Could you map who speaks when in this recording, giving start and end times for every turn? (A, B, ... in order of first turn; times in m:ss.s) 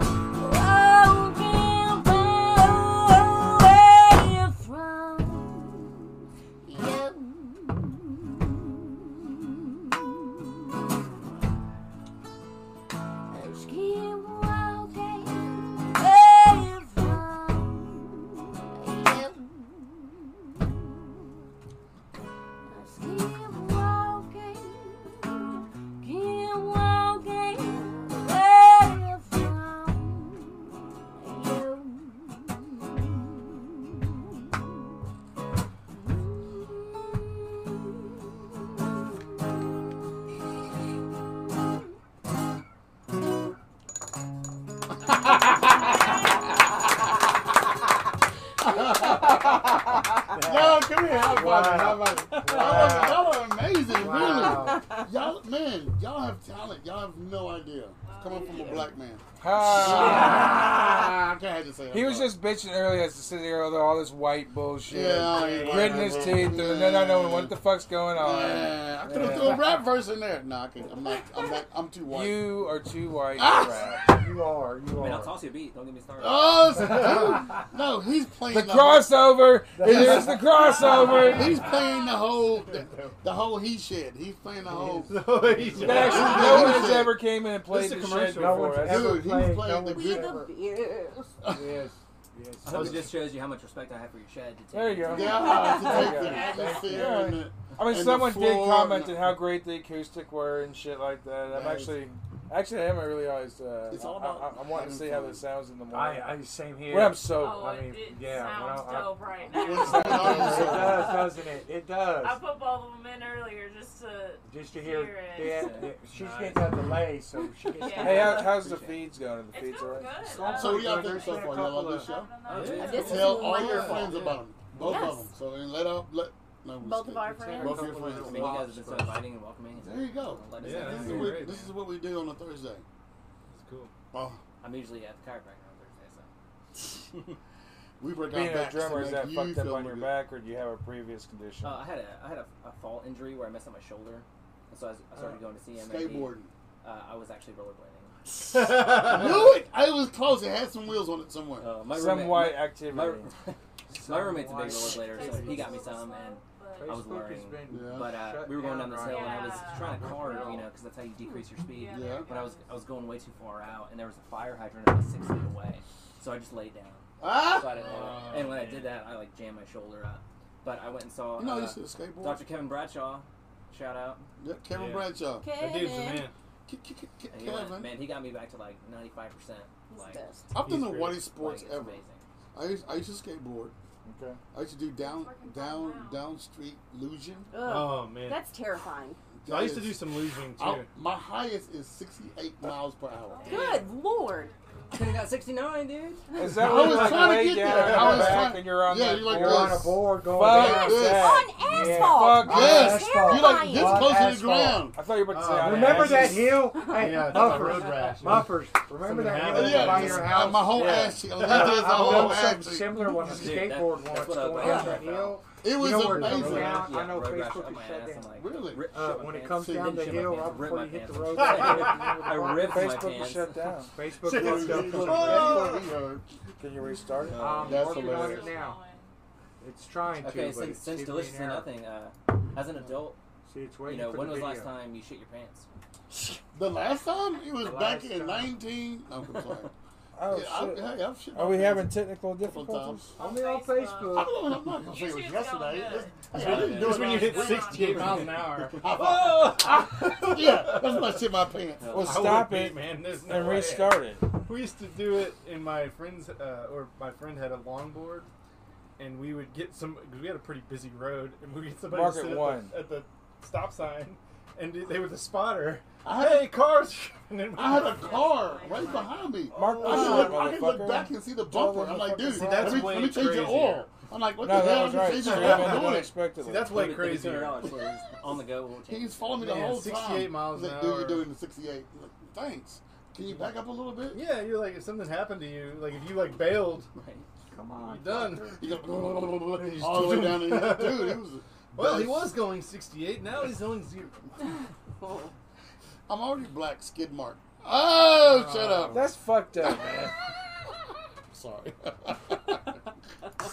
0:00.3-0:05.9 A
0:06.6-0:08.7 A
0:13.3-0:20.7 A
0:22.7-0:34.1 A
0:35.9-0:37.8 A
0:48.6-0:49.6 B
0:50.3-1:02.3 B
0:50.3-0:54.8 C
0:58.0-0:58.8 D
0:59.4-1:01.0 E
1:01.9-1:09.6 E
1:04.9-1:07.6 B
1:05.3-1:06.2 F
1:08.1-1:12.6 B
1:12.1-1:14.1 E
1:13.4-1:14.2 B
1:14.1-1:15.3 C
1:14.9-1:17.0 G
1:16.2-1:19.2 B
1:18.5-1:21.5 E
1:19.8-1:21.1 C
1:19.8-1:20.4 B
1:21.0-1:27.2 B
1:21.7-1:22.0 A
1:22.6-1:23.2 F
1:24.7-1:26.9 C
1:24.8-1:27.0 F
1:25.8-1:29.2 E
1:27.6-1:28.8 F
1:28.3-1:30.5 C
1:28.8-1:30.4 B
1:29.8-1:31.3 A
1:31.4-1:31.8 B
1:31.4-1:33.2 C
1:32.6-1:35.6 G
1:32.7-1:33.1 F
1:34.7-1:47.7 E
1:35.1-1:39.3 B
1:35.2-1:36.4 A
1:36.2-1:36.7 D
1:36.4-1:37.0 C
1:41.5-1:42.0 B
1:43.9-1:45.4 B
1:45.9-1:52.4 C
1:47.2-1:50.8 D
1:49.5-1:51.2 B
1:49.7-1:50.9 E
1:52.2-1:55.9 D
1:54.4-1:58.5 C
1:55.3-1:57.0 G
1:57.7-1:58.5 D
1:57.9-2:00.1 E
1:58.0-1:59.0 G
1:59.5-2:03.2 D
2:00.2-2:02.2 C
2:00.4-2:08.6 B
2:02.4-2:03.0 G
2:02.5-2:04.4 F
2:02.8-2:04.1 H
2:03.1-2:04.0 A
2:04.8-2:05.2 H
2:06.8-2:08.0 H
2:07.2-2:09.2 C
2:08.1-2:11.5 G
2:09.7-2:12.8 B
2:10.6-2:11.7 F
2:13.5-2:13.9 F
2:14.1-2:14.4 B
2:14.6-2:16.3 G
2:18.0-2:20.2 B
2:18.3-2:21.8 E
2:21.6-2:28.1 G
2:25.7-2:26.5 B
2:28.5-2:29.5 F
2:28.7-2:31.7 B
2:31.6-2:54.3 G
2:31.9-2:33.3 E
2:33.9-2:35.9 C
2:34.7-2:37.0 D
2:36.8-2:40.4 C
2:37.7-2:38.2 B
2:38.9-2:40.7 D
2:41.7-2:42.9 D
2:41.9-2:42.3 B
2:47.2-2:48.3 B
2:47.7-2:48.9 F
2:51.3-2:52.5 B
2:54.4-2:55.5 B
2:54.6-2:56.3 F
2:55.4-2:56.3 H
2:56.7-2:58.0 B
2:57.3-3:00.2 G
2:59.9-3:00.5 H
3:00.5-3:02.0 B
3:00.6-3:01.2 F
3:01.2-3:02.2 G
3:02.5-3:03.7 B
3:04.0-3:04.4 E
3:04.5-3:07.5 B
3:05.0-3:06.3 D
3:07.5-3:09.2 H
3:07.6-3:08.4 F
3:09.4-3:13.8 B
3:09.4-3:10.9 F
3:13.2-3:15.5 D
3:13.4-3:14.5 H
3:14.9-3:16.3 G
3:16.3-3:23.0 E
3:16.4-3:21.4 B
3:17.6-3:18.5 F
3:19.2-3:24.9 C
3:21.1-3:24.0 A
3:22.4-3:25.0 B
3:24.9-3:26.6 E
3:25.2-3:32.5 F
3:25.5-3:43.0 C
3:29.3-3:33.5 B
3:33.2-3:35.4 G
3:34.6-3:35.0 B
3:35.6-3:36.9 B
3:36.1-3:36.8 F
3:36.4-3:43.7 G
3:38.3-3:40.4 B
3:41.4-3:42.1 F
3:42.3-3:43.9 E
3:43.9-3:45.7 C
3:44.2-3:46.2 B
3:44.2-3:45.9 F
3:46.6-3:47.6 E
3:47.4-3:48.8 C
3:47.4-3:48.6 B
3:47.6-3:49.1 D
3:49.6-3:51.7 C
3:50.2-3:53.2 G
3:53.4-3:54.8 C
3:53.8-3:55.7 G
3:56.5-3:59.7 B
3:57.6-3:58.5 C
4:00.2-4:03.1 E
4:00.2-4:03.2 B
4:03.2-4:04.4 C
4:03.2-4:08.3 D
4:04.1-4:12.0 B
4:06.3-4:11.3 F
4:06.4-4:06.9 G
4:11.8-4:12.4 G
4:11.9-4:14.3 E
4:12.0-4:18.3 F
4:19.0-4:28.3 F
4:21.9-4:22.8 E
4:26.0-4:26.7 B
4:27.5-4:36.1 B
4:27.7-4:29.4 D
4:29.5-4:30.3 F
4:29.5-4:31.1 E
4:31.5-4:33.0 C
4:32.3-4:33.9 F
4:34.4-4:36.8 E
4:35.2-4:37.7 F
4:36.7-4:39.4 G
4:38.8-4:44.3 B
4:39.3-4:41.3 F
4:44.1-4:46.9 F
4:46.9-4:47.3 G
4:47.5-4:48.6 C
4:47.8-4:48.6 F
4:48.5-4:52.4 B
4:49.4-4:54.2 F
4:55.0-4:55.3 H
4:56.1-4:59.1 B
4:58.2-4:59.0 C
4:58.9-5:00.1 E
4:59.6-5:00.1 B
5:01.3-5:02.7 B